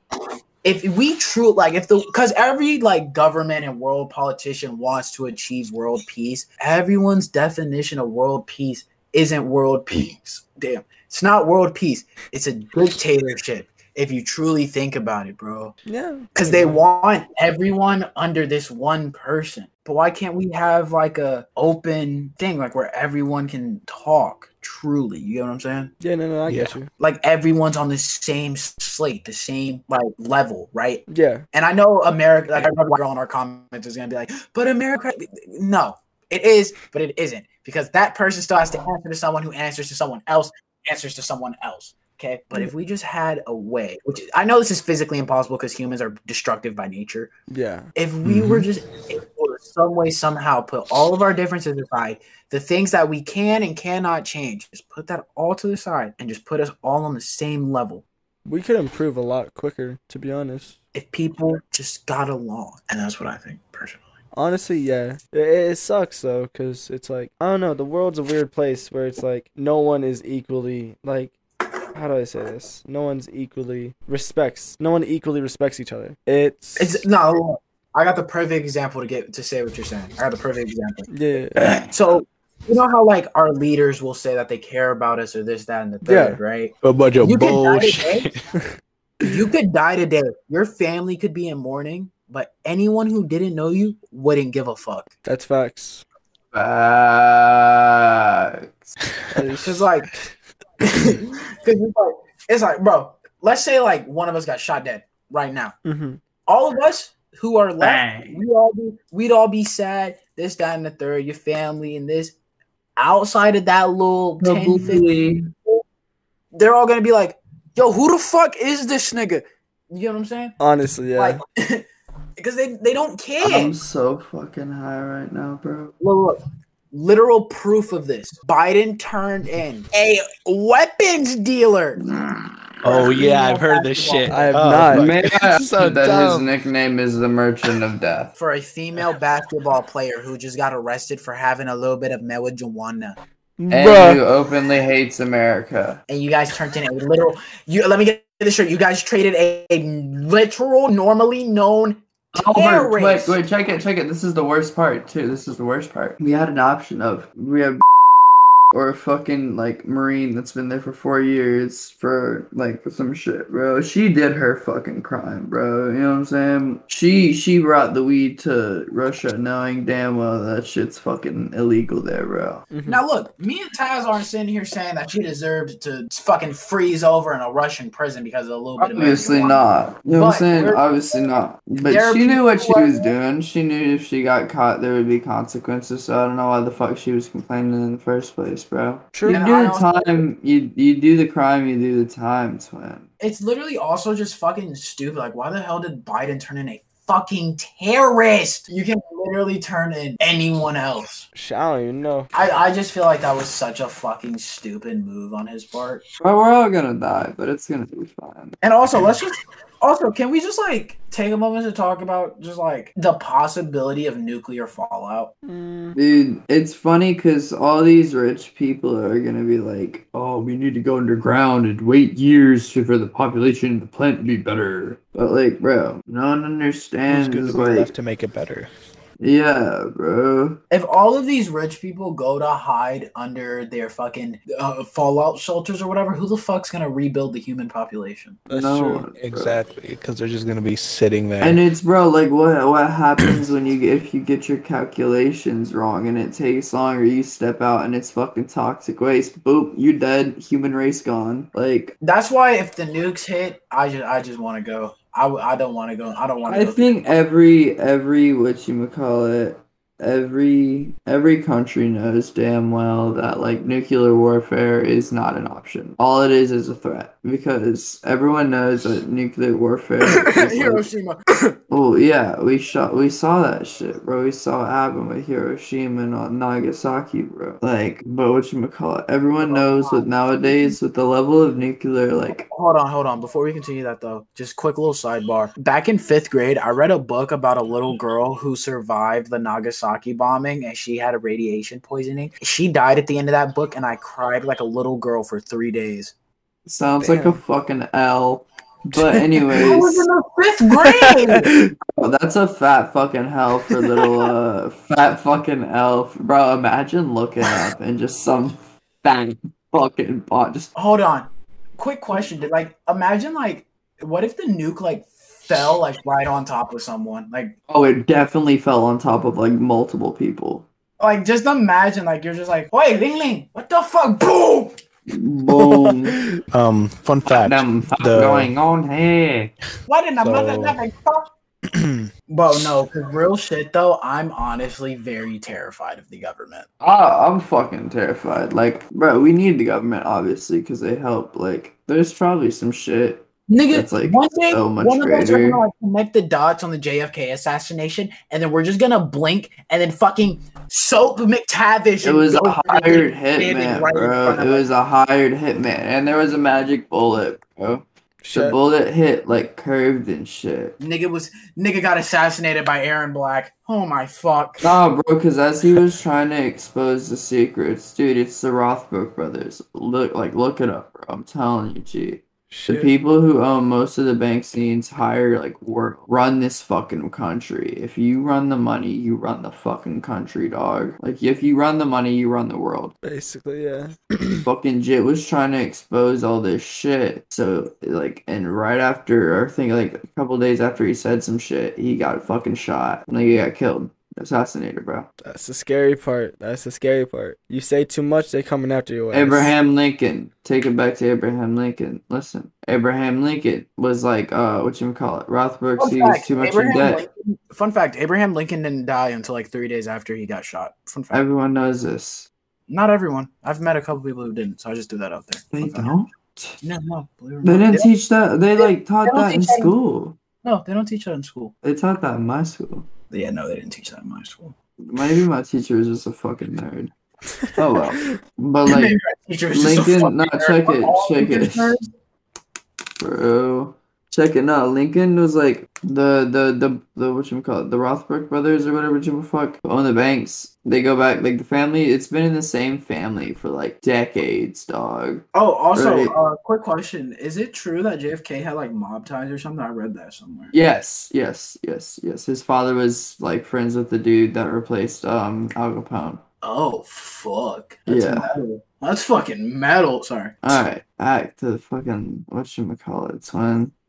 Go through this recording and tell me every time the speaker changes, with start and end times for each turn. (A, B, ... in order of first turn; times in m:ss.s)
0:00.6-0:15.8 A
0:15.9-0:16.8 B
0:16.3-0:25.9 A
0:26.0-0:26.9 B
0:26.4-0:26.8 C
0:27.0-0:47.3 A
0:31.1-0:31.4 B
0:47.5-0:47.9 B
0:48.0-0:58.0 A
0:48.2-0:48.7 C
0:58.4-1:00.8 B
1:00.9-1:04.0 A
1:04.3-1:11.3 B
1:11.9-1:17.0 B
1:16.8-1:21.1 A
1:21.1-1:21.7 B
1:21.6-1:28.3 A
1:26.0-1:26.4 B
1:26.8-1:28.4 C
1:29.2-1:35.1 A
1:35.2-1:36.0 B
1:36.5-1:38.9 D
1:39.3-1:39.9 B
1:39.6-1:40.1 A
1:40.8-1:45.7 A
1:45.8-1:46.2 B
1:46.4-1:52.3 A
1:47.8-1:48.4 D
1:53.0-1:55.0 A
1:54.4-1:55.5 D
1:56.5-2:00.5 A
2:00.6-2:01.4 B
2:01.2-2:01.8 A
2:02.4-2:03.7 A
2:03.4-2:05.9 D
2:06.0-2:12.0 A
2:12.0-2:13.1 D
2:12.8-2:16.5 C
2:12.9-2:14.6 A
2:14.3-2:15.1 B
2:14.9-2:18.3 D
2:18.4-2:23.2 A
2:23.6-2:24.2 B
2:23.7-2:26.0 D
2:26.1-2:33.4 A
2:32.3-2:37.8 D
2:38.7-2:52.6 D
2:52.7-2:53.0 B
2:52.8-3:00.8 A
2:58.8-3:13.1 D
3:01.8-3:03.1 A
3:09.1-3:09.5 B
3:09.2-3:10.2 A
3:13.2-3:21.2 A
3:21.3-3:22.3 B
3:22.3-3:26.0 A
3:26.2-3:28.6 D
3:28.6-3:35.3 A
3:35.4-3:35.9 B
3:35.9-3:47.9 D
3:47.1-3:48.7 C
3:49.2-3:50.6 D
3:50.7-3:58.4 A
3:58.5-3:59.0 B
3:58.5-3:59.6 D
3:59.1-4:01.6 C
4:01.4-4:11.9 D
4:12.0-4:16.9 A
4:16.4-4:30.9 D
4:30.0-4:31.6 A
4:31.7-4:42.5 D
4:39.4-4:40.8 A
4:42.4-4:56.1 A
4:56.6-5:00.1 D
4:57.0-4:57.4 B
4:59.5-5:01.5 A
5:00.8-5:01.7 B
5:01.8-5:10.7 D
5:10.8-5:17.5 A
5:17.7-5:20.6 D
5:21.0-5:24.8 A
5:25.1-5:26.2 D
5:25.5-5:26.4 B
5:26.5-5:28.5 C
5:27.2-5:29.5 D
5:29.9-5:31.3 A
5:30.2-5:30.8 C
5:31.7-5:32.1 C
5:32.3-5:36.6 A
5:36.8-5:45.6 D
5:43.5-5:54.7 A
5:52.0-6:00.8 D
5:58.2-5:58.6 B
6:00.8-6:04.7 A
6:04.6-6:22.9 D
6:12.5-6:12.9 B
6:23.0-6:24.4 B
6:24.4-6:35.1 D
6:35.2-6:39.5 B
6:39.1-6:47.0 D
6:45.8-6:51.2 A
6:51.1-6:52.3 D
6:52.7-6:55.9 A
6:55.5-6:56.6 D
6:56.6-6:57.9 A
6:57.4-7:00.2 D
6:58.6-6:59.7 A
7:00.4-7:01.5 A
7:01.6-7:02.9 D
7:03.1-7:04.5 A
7:04.8-7:06.9 D
7:07.5-7:08.9 D
7:08.6-7:11.9 A
7:09.5-7:11.8 D
7:13.0-7:26.1 D
7:25.3-7:30.5 A
7:30.5-7:36.2 D
7:36.4-7:40.4 A
7:37.9-7:38.3 D
7:40.4-7:43.7 D